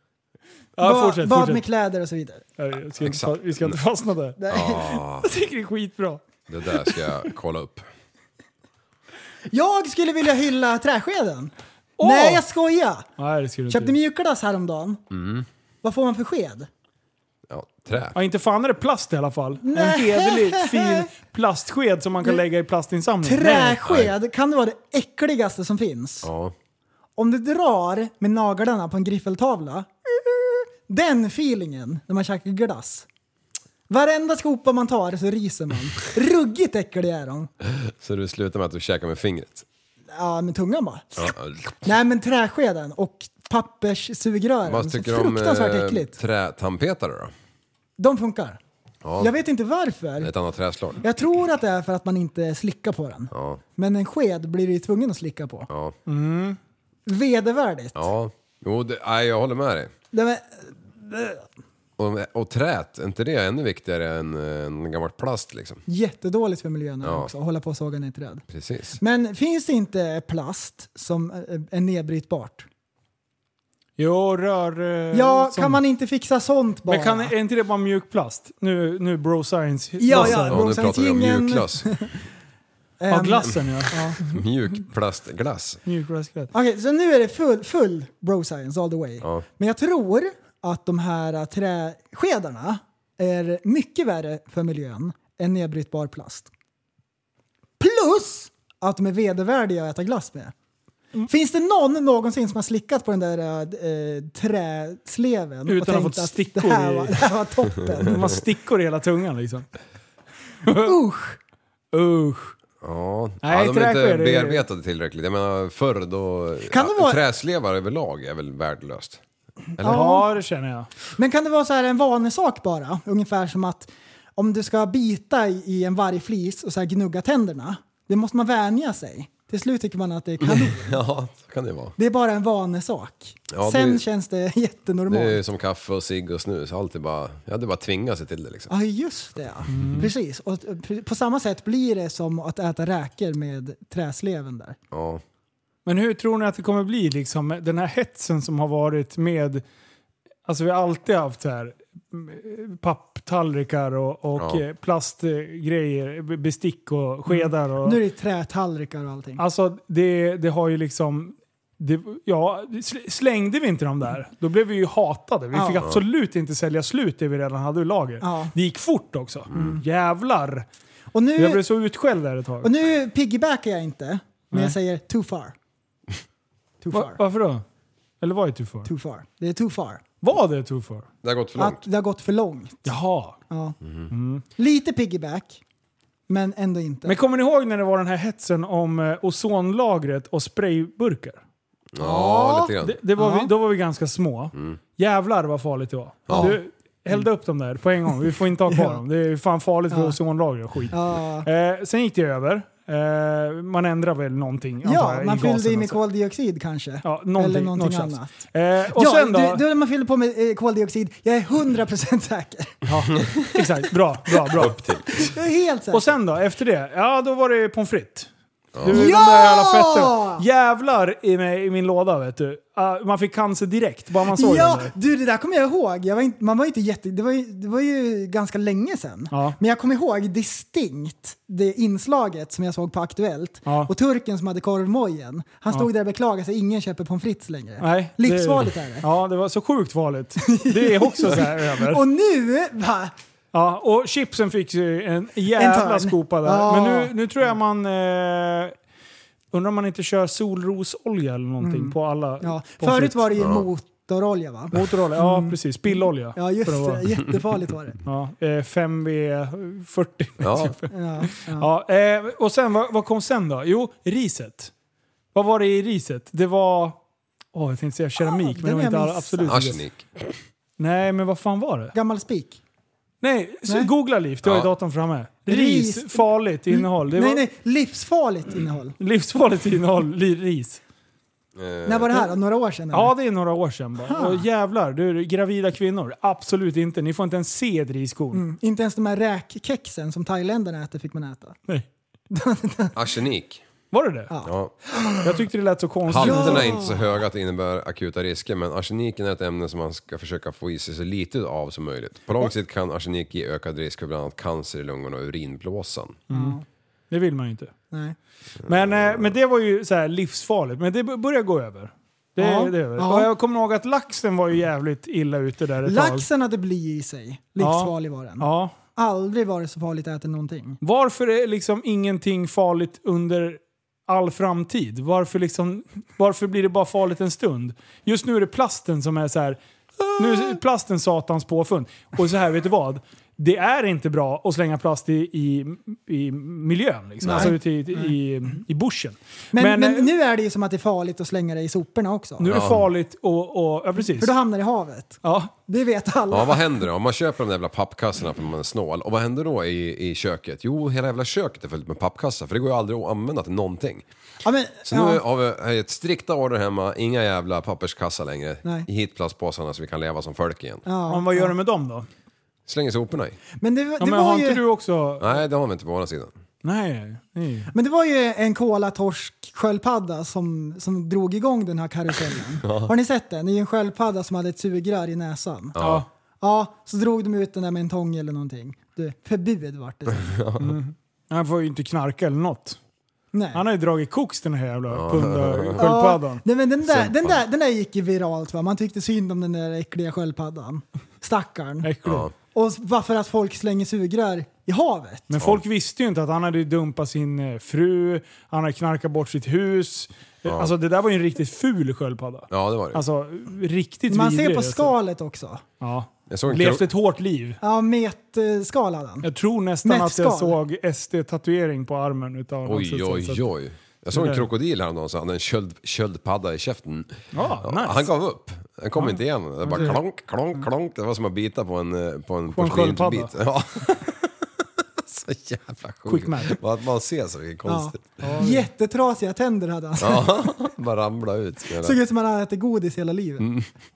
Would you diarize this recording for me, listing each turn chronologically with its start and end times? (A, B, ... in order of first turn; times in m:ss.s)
0:00.8-0:01.6 A
0:00.8-0:02.4 B
0:02.6-0:04.4 A
0:03.0-0:03.8 C
0:04.4-0:05.0 B
0:04.5-0:05.3 C
0:05.2-0:06.2 A
0:06.5-0:07.8 C
0:09.5-0:13.1 B
0:12.0-0:12.4 A
0:13.2-0:13.9 A
0:13.7-0:15.0 B
0:15.1-0:15.4 C
0:15.8-0:16.7 B
0:17.5-0:18.2 C
0:18.1-0:23.8 A
0:19.6-0:21.1 B
0:23.2-0:26.3 B
0:23.8-0:24.1 C
0:26.2-0:26.5 C
0:27.2-0:33.0 B
0:33.9-0:37.5 B
0:37.6-0:39.6 C
0:40.1-0:41.3 B
0:41.2-0:41.8 C
0:41.8-0:46.2 B
0:44.6-0:47.3 C
0:48.0-0:48.6 B
0:49.0-0:49.3 C
0:49.2-0:50.3 B
0:50.2-0:51.0 C
0:51.0-0:55.7 B
0:53.3-0:53.6 C
0:55.7-0:55.9 C
0:56.1-0:56.6 A
0:57.1-0:58.1 B
0:57.9-0:59.9 C
1:00.1-1:01.4 B
1:02.0-1:05.8 C
1:05.9-1:08.4 B
1:07.0-1:07.3 C
1:08.5-1:09.0 C
1:09.0-1:12.7 B
1:14.0-1:15.8 A
1:15.1-1:17.3 B
1:16.9-1:20.6 A
1:20.0-1:22.1 B
1:20.1-1:22.1 C
1:23.0-1:24.2 B
1:23.1-1:24.3 A
1:24.2-1:25.8 C
1:25.8-1:26.5 A
1:26.5-1:36.5 B
1:37.8-1:40.5 B
1:41.3-1:48.2 B
1:45.7-1:47.2 A
1:48.0-1:49.7 A
1:50.6-1:50.9 A
1:50.7-1:51.4 B
1:51.9-1:52.5 A
1:52.8-1:59.2 C
1:53.4-1:54.6 A
1:56.7-1:57.2 B
1:59.8-2:00.0 C
1:59.8-2:00.3 B
1:59.8-2:00.9 A
2:01.1-2:11.0 B
2:10.4-2:11.9 C
2:12.0-2:15.4 B
2:13.5-2:14.0 C
2:15.1-2:18.7 C
2:18.7-2:24.8 B
2:19.7-2:20.1 A
2:24.9-2:25.2 C
2:25.9-2:29.6 A
2:30.4-2:38.0 A
2:34.4-2:34.6 C
2:37.3-2:39.4 B
2:39.4-2:50.6 A
2:45.5-2:45.9 B
2:48.2-2:48.5 B
2:51.1-2:51.6 B
2:51.4-2:52.7 A
2:52.6-2:55.6 B
2:56.8-2:57.2 B
2:56.9-2:57.6 A
2:58.2-2:58.9 A
2:58.9-3:00.0 B
3:00.2-3:01.1 A
3:01.2-3:01.8 C
3:01.6-3:02.9 B
3:02.8-3:03.4 A
3:03.5-3:03.8 B
3:03.8-3:04.1 C
3:04.1-3:04.4 A
3:04.6-3:05.6 B
3:06.3-3:07.2 B
3:07.0-3:11.4 A
3:11.9-3:13.0 C
3:12.0-3:13.5 B
3:12.8-3:26.0 A
3:14.5-3:14.8 C
3:16.3-3:16.6 C
3:16.3-3:16.6 B
3:18.6-3:19.0 B
3:19.9-3:20.2 B
3:20.9-3:21.5 B
3:24.8-3:28.3 B
3:27.0-3:29.6 A
3:28.9-3:32.8 B
3:32.9-3:35.3 A
3:33.2-3:33.5 C
3:34.5-3:35.3 C
3:35.2-3:36.1 B
3:35.9-3:38.3 A
3:38.7-3:39.1 C
3:38.8-3:44.9 A
3:38.9-3:40.4 B
3:44.3-3:59.1 B
3:49.3-3:49.6 A
3:53.6-3:53.9 A
3:57.8-4:02.0 A
4:00.5-4:03.1 B
4:03.5-4:08.7 A
4:05.5-4:07.1 B
4:09.5-4:13.2 A
4:11.6-4:18.0 B
4:13.4-4:13.7 C
4:14.7-4:17.0 A
4:18.0-4:24.7 A
4:20.4-4:20.8 C
4:20.9-4:21.7 B
4:25.3-4:27.0 A
4:27.5-4:29.8 A
4:28.2-4:29.6 B
4:29.4-4:30.3 C
4:30.8-4:31.9 A
4:31.9-4:32.6 B
4:33.2-4:37.4 A
4:34.4-4:34.7 C
4:35.5-4:39.0 B
4:39.0-4:40.8 A
4:41.6-4:42.3 C
4:41.9-4:43.1 B
4:42.9-4:48.4 A
4:44.1-4:44.4 B
4:48.3-4:51.6 B
4:52.3-4:52.9 B
4:52.9-4:53.6 C
4:53.9-4:54.3 A
4:54.3-4:55.4 B
4:54.4-4:54.7 C
4:55.2-4:56.8 A
4:56.0-5:06.2 C
4:56.2-4:57.0 B
5:06.3-5:06.6 A
5:06.3-5:06.6 B
5:07.1-5:07.7 A
5:07.9-5:08.2 B
5:08.6-5:09.3 C
5:08.6-5:16.2 A
5:12.4-5:13.3 B
5:15.8-5:20.8 B
5:17.6-5:18.7 A
5:20.8-5:29.6 A
5:30.1-5:40.1 A
5:37.2-5:38.1 B
5:37.2-5:37.5 C
5:39.5-5:42.5 B
5:42.4-5:44.3 A
5:42.4-5:42.9 C
5:44.0-5:46.7 B
5:45.2-5:45.5 A
5:46.3-5:54.0 C
5:54.4-5:55.2 B
5:54.8-6:00.8 C
6:00.8-6:01.5 B
6:01.1-6:02.1 A
6:02.7-6:03.4 C
6:03.6-6:04.6 B
6:04.0-6:05.4 A
6:05.2-6:06.3 C
6:06.6-6:07.7 A
6:07.7-6:15.8 B
6:12.6-6:12.9 C
6:15.7-6:16.0 C
6:15.8-6:16.1 A
6:16.4-6:20.3 B
6:20.2-6:20.8 C
6:20.6-6:22.8 A
6:23.3-6:23.6 B
6:23.5-6:26.4 A
6:24.9-6:25.9 C
6:25.8-6:35.3 B
6:26.8-6:27.4 C
6:31.8-6:32.3 A
6:32.0-6:32.3 C
6:35.3-6:44.9 A
6:40.4-6:40.7 C
6:42.5-6:43.0 C
6:44.1-6:45.6 B
6:45.8-6:47.6 A
6:46.3-6:46.8 C
6:47.6-6:49.3 B
6:49.2-6:53.4 A
6:49.8-6:50.6 B
6:52.6-7:04.3 C
6:54.1-6:54.5 A
6:57.3-6:58.1 A
6:59.0-7:00.0 A
7:02.5-7:03.3 A
7:05.0-7:08.2 C
7:06.0-7:06.6 A
7:07.6-7:10.5 B
7:08.2-7:08.7 A
7:10.0-7:12.0 C
7:11.7-7:13.5 B
7:13.4-7:13.7 C